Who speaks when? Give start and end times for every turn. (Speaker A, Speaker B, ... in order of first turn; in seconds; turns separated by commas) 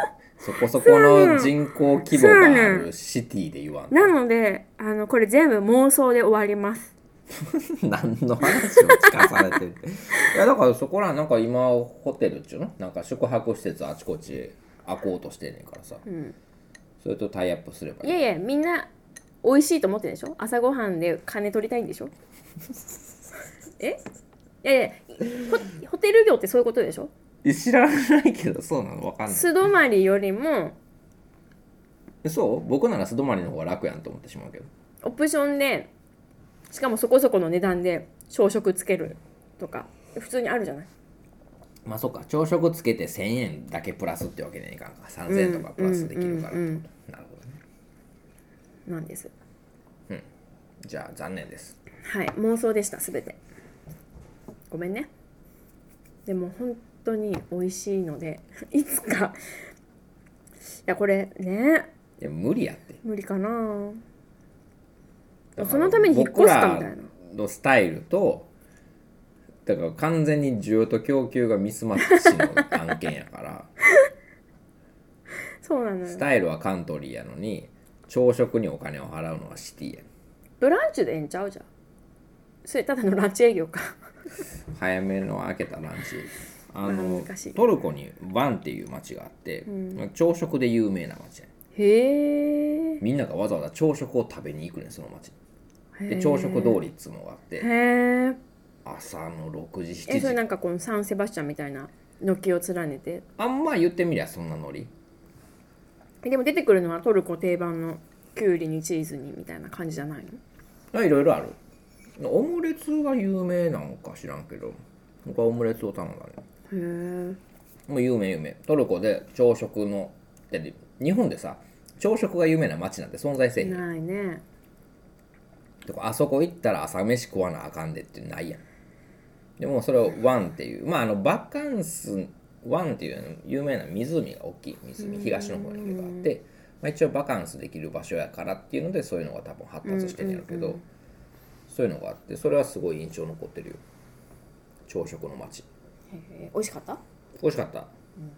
Speaker A: 0.4-4.1, Speaker B: 0.8-1.5, Speaker B: 2.0-2.9, Speaker B: 3.9-6.9, Speaker A: 7.3-16.0, Speaker B: 8.4-9.6, Speaker B: 16.1-16.4, Speaker A: 17.0-18.3, Speaker B: 18.0-18.9, Speaker B: 19.4-22.1, Speaker B: 24.6-27.1, Speaker A: 27.4-29.6, Speaker B: 29.3-30.8, Speaker A: 32.2-34.7, Speaker B: 35.0-35.9, Speaker B: 36.7-40.9, Speaker A: 41.9-47.6, Speaker B: 45.3-46.9, Speaker B: 48.9-49.3, Speaker A: 50.9-51.8, Speaker B: 52.0-53.4, Speaker B: 54.7-55.1, Speaker B: 56.3-59.4, Speaker B: 60.9-61.9, Speaker A: 62.2-63.0, Speaker B: 63.0-64.0, Speaker B: 65.6-67.1, Speaker A: 65.6-68.5, Speaker A: 69.7-73.7, Speaker B: 72.0-72.7, Speaker B: 75.6-76.2, Speaker A: 76.1-80.1, Speaker B: 80.6-81.7, Speaker B: 82.7-84.0, Speaker A: 84.7-91.5, Speaker B: 86.8-87.7, Speaker B: 89.7-90.0, Speaker B: 91.8-93.0, Speaker A: 93.0-95.4, Speaker B: 96.0-96.9, Speaker A: 96.1-97.7, Speaker B: 97.6-98.4, Speaker A: 98.8-100.4, Speaker B: 100.1-103.2, Speaker A: 103.4-104.9, Speaker B: 106.2-110.4, Speaker A: 110.9-111.6, Speaker A: 112.2-116.4, Speaker B: 116.7-117.4, Speaker A: 117.9-123.8, Speaker B: 123.6-124.4, Speaker A: 125.8-128.6, Speaker A: 129.6-140.8, Speaker B: 135.0-136.3, Speaker B: 139.8-140.8, Speaker A: 141.7-143.8, Speaker A: 144.9-145.7, Speaker B: 146.1-147.0, Speaker A: 147.4-147.9